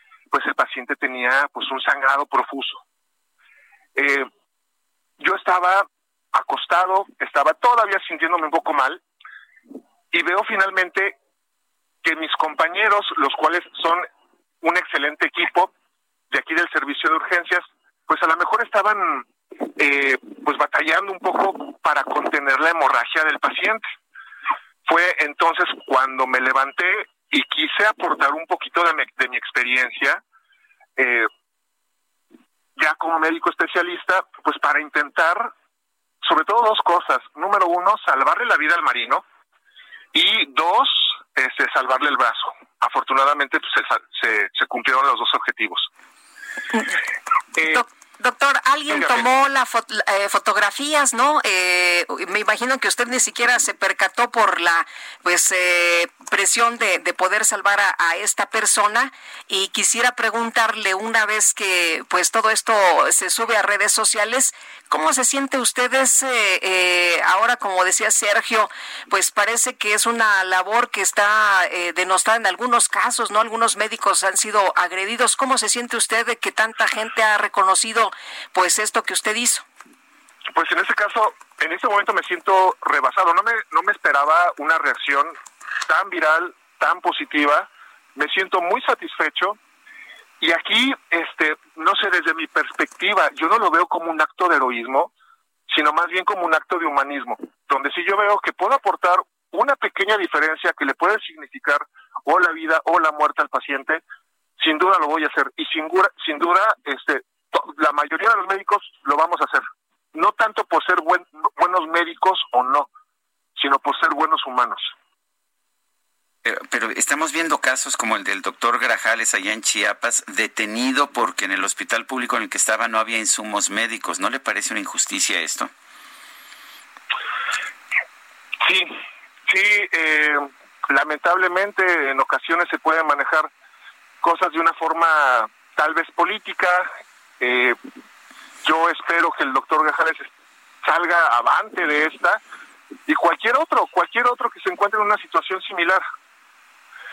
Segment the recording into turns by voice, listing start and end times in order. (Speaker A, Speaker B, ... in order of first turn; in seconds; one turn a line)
Speaker A: 0.3-2.8
Speaker A: 3.9-4.3
Speaker A: 5.2-9.0
Speaker A: 10.1-11.2
Speaker A: 12.0-14.1
Speaker A: 14.6-15.7
Speaker A: 16.3-23.8
Speaker A: 24.9-30.2
Speaker A: 31.0-31.3
Speaker A: 32.8-35.5
Speaker A: 36.2-39.2
Speaker A: 40.1-45.9
Speaker B: 46.7-47.0
Speaker A: 47.6-47.8
Speaker B: 47.6-79.6
Speaker A: 48.9-49.3
Speaker A: 80.5-85.3
Speaker A: 85.9-89.6
Speaker A: 90.4-95.1
Speaker A: 95.7-104.0
Speaker A: 104.6-112.9
Speaker A: 113.5-114.9
Speaker C: 116.4-125.7
Speaker A: 128.6-128.9
Speaker A: 129.5-133.5
Speaker A: 134.2-136.9
Speaker A: 137.4-137.8
Speaker A: 138.6-140.3
Speaker A: 140.8-142.4
Speaker A: 143.1-146.0